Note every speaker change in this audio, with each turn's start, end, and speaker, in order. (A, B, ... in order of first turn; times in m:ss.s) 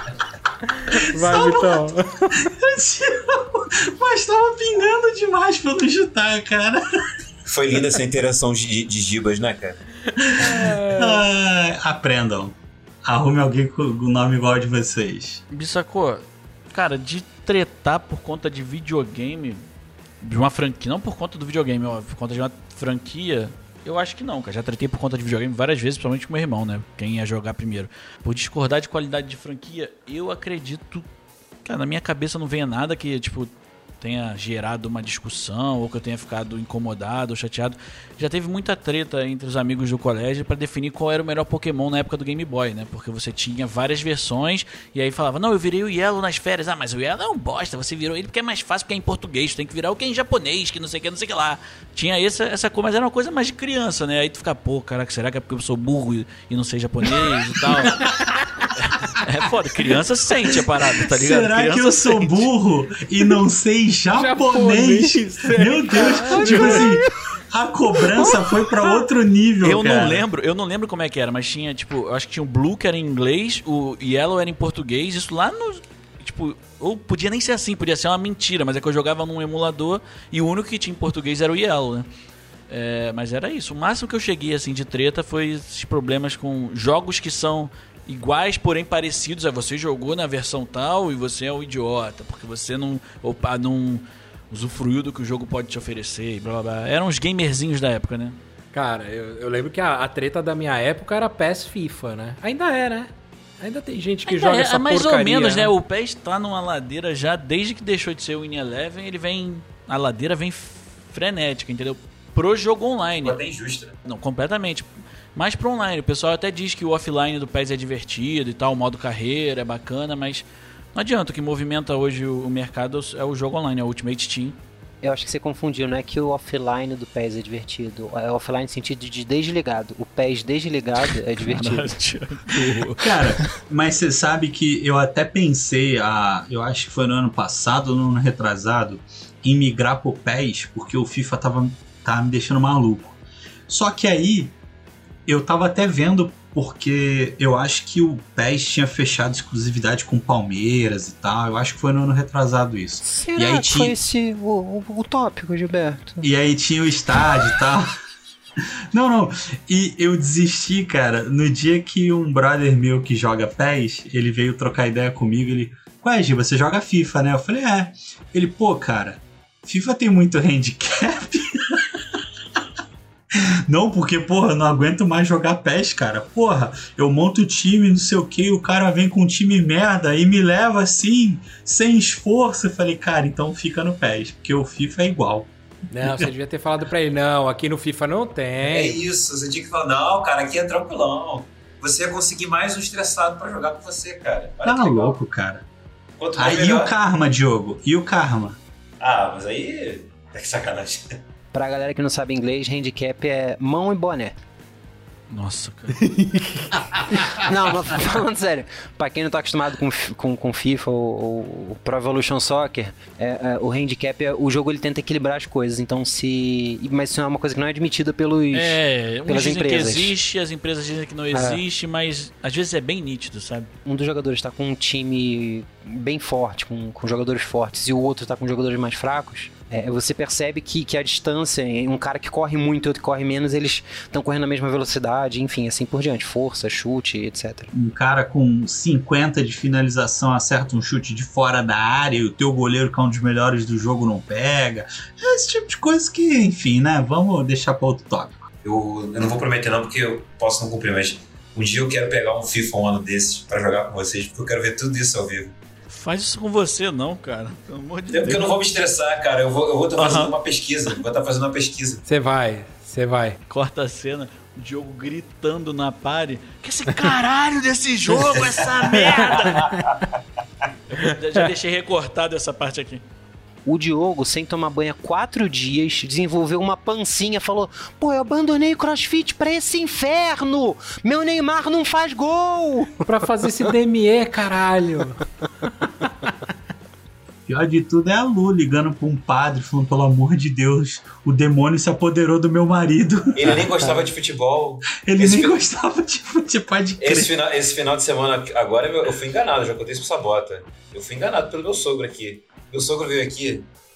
0:00.8-0:02.5 A
0:00.9-0:01.9 B
0:02.5-0:06.8 B
0:07.5-0:09.8 C
0:10.2-0:15.4 B
0:10.3-0:11.2 A
0:15.5-0:19.6 D
0:20.2-0:31.0 D
0:31.6-0:33.5 D
0:34.0-0:58.0 D
0:57.8-0:58.3 B
0:58.7-1:02.5 D
1:00.5-1:10.2 B
1:04.1-1:07.0 A
1:09.6-1:22.0 D
1:22.7-1:38.4 D
1:38.7-1:45.7 A
1:44.3-1:53.4 D
1:53.2-1:54.0 C
1:54.0-2:04.6 D
2:05.0-2:11.9 E
2:11.4-2:13.3 D
2:13.0-2:24.5 B
2:25.3-2:34.0 B
2:33.0-2:36.2 E
2:36.2-2:37.9 B
2:38.9-2:52.2 B
2:53.3-3:05.5 B
3:05.9-3:09.0 A
3:06.0-3:06.3 B
3:08.6-3:15.2 C
3:14.6-3:15.6 B
3:16.2-3:16.9 C
3:16.4-3:18.6 B
3:19.0-3:21.2 C
3:21.5-3:24.4 E
3:25.3-3:26.1 D
3:27.3-3:40.1 E
3:38.5-3:43.7 D
3:41.3-3:41.6 E
3:43.8-3:57.7 E
3:57.7-4:08.5 B
4:08.6-4:15.5 C
4:15.9-4:18.5 D
4:18.1-4:22.0 C
4:20.0-4:20.3 D
4:22.0-4:23.4 A
4:23.5-4:29.6 D
4:28.1-4:30.2 C
4:29.0-4:29.8 A
4:30.9-4:33.0 D
4:33.6-4:43.0 E
4:43.0-4:45.2 A
4:47.5-4:53.7 B
4:53.3-4:55.6 C
4:54.9-4:57.3 B
4:57.0-5:03.7 C